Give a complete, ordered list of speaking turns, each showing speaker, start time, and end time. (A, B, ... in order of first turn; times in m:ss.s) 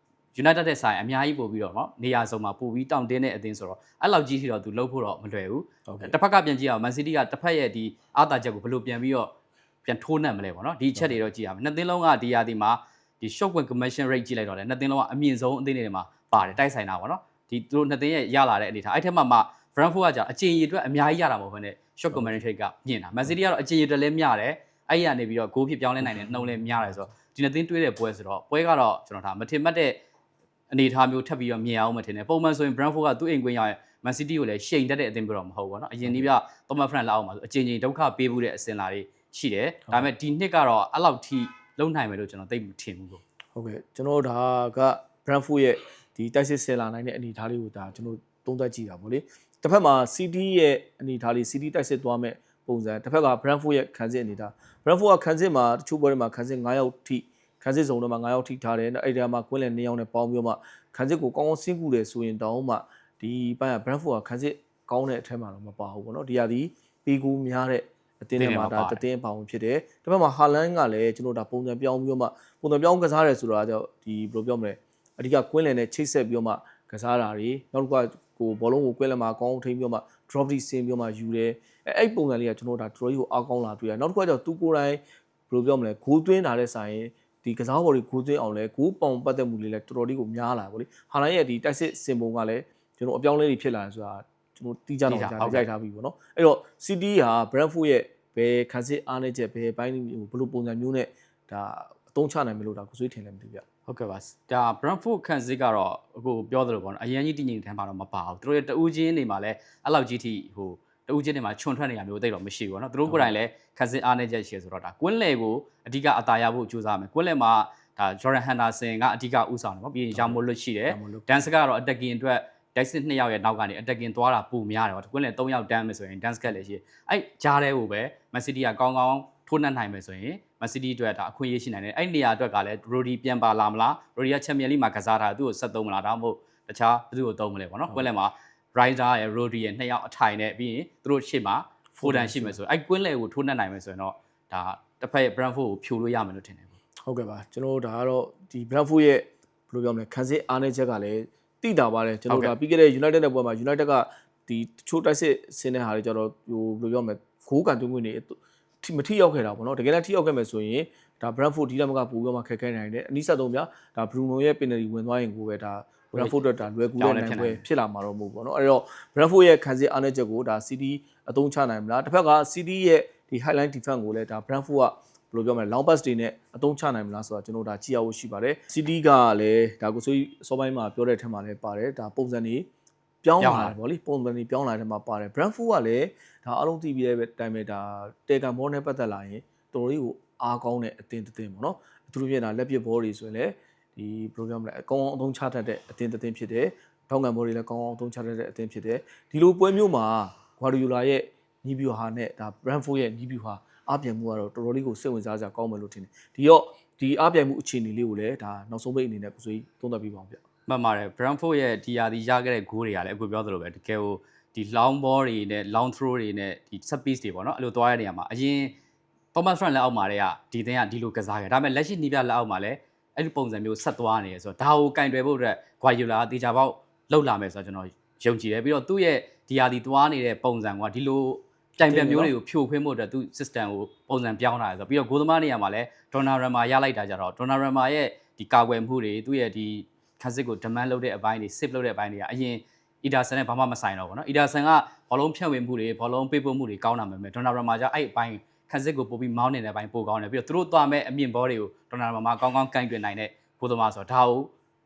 0:00.3-0:09.3 A
0:05.9-0:06.2 B
0:09.8-0:30.0 A
0:22.1-0:22.4 B
0:26.0-0:27.1 B
0:30.7-0:43.2 A
0:36.0-0:36.3 B
0:43.6-1:43.6 B
1:08.4-1:09.0 A
1:35.1-1:35.6 A
1:43.9-2:26.8 A
1:53.1-1:53.3 B
2:00.1-2:01.5 B
2:21.9-2:22.6 B
2:27.0-3:02.7 B
2:32.3-2:32.5 A
2:46.1-2:46.4 A
2:47.0-2:47.6 A
3:03.2-3:30.4 B
3:03.4-3:03.8 A
3:30.7-3:38.8 A
3:39.3-4:14.5 A
3:51.8-3:52.3 B